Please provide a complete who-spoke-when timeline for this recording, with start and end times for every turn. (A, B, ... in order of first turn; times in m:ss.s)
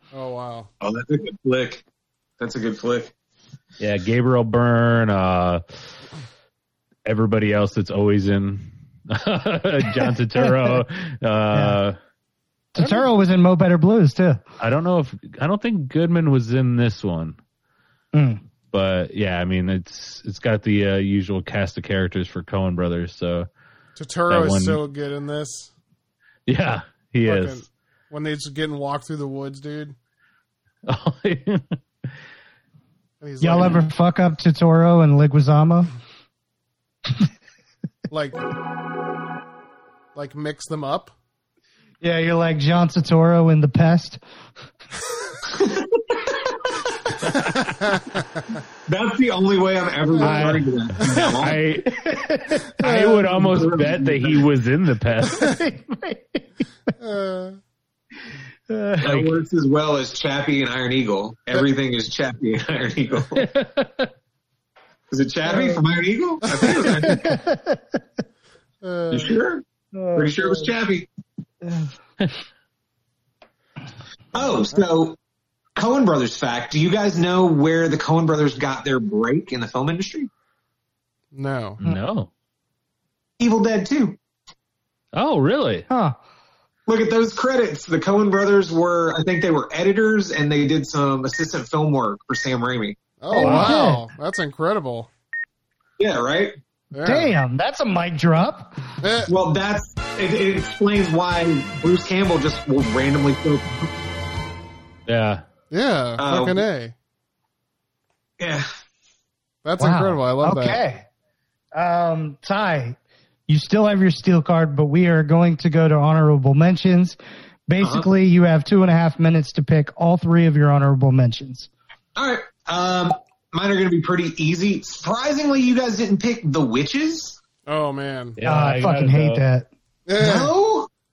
0:00.1-0:00.7 A
0:00.8-0:01.8 B
0:02.4-0:03.1 B
0:03.8-0:05.6 C
0:07.0-0:12.0 C
0:11.5-0:11.8 D
0:12.7-0:14.4 D
0:14.6-0:17.4 C
0:18.1-0:18.4 D
0:18.7-0:23.5 C
0:24.0-0:25.7 A
0:24.3-0:24.8 C
0:26.5-0:27.6 C
0:27.2-0:29.9 A
0:30.8-0:31.8 C
0:33.2-0:33.9 A
0:33.4-0:35.9 D
0:38.1-0:38.4 A
0:40.1-0:41.1 A
0:42.0-0:44.2 D
0:45.5-0:46.7 B
0:47.8-0:48.2 A
0:48.9-0:51.6 B
0:50.2-0:52.0 C
0:50.2-0:50.5 A
0:51.9-0:52.7 D
0:52.8-0:53.6 A
0:52.8-0:55.5 C
0:53.3-0:54.4 B
0:55.3-0:56.4 D
0:57.0-0:57.6 A
0:58.7-0:59.1 D
0:59.0-1:03.5 B
1:03.4-1:04.1 C
1:05.1-1:07.4 B
1:05.5-1:05.8 D
1:06.5-1:07.0 A
1:07.0-1:07.8 D
1:08.8-1:09.4 A
1:09.1-1:09.6 B
1:09.9-1:10.7 D
1:10.2-1:11.1 B
1:14.3-1:15.2 B
1:15.8-1:20.3 B
1:21.3-1:21.8 A
1:21.8-1:22.3 C
1:23.4-1:24.2 B
1:25.1-1:25.9 C
1:25.9-1:26.2 D
1:26.9-1:33.0 B
1:33.2-1:35.1 A
1:33.3-1:34.0 D
1:33.3-1:33.8 C
1:36.0-1:36.5 B
1:36.9-1:37.3 A
1:37.0-1:38.7 D
1:39.0-1:39.3 A
1:39.3-1:43.9 B
1:45.1-1:45.4 C
1:45.7-1:46.9 A
1:46.2-1:46.6 B
1:48.4-1:48.7 B
1:49.6-1:50.8 A
1:49.8-1:51.0 D
1:51.7-1:53.0 D
1:53.5-1:57.2 D
1:57.7-2:01.7 D
1:57.8-1:58.0 B
2:02.2-2:07.4 B
2:07.6-2:08.4 A
2:08.4-2:09.4 C
2:08.4-2:09.7 D
2:10.1-2:10.5 A
2:10.2-2:10.9 B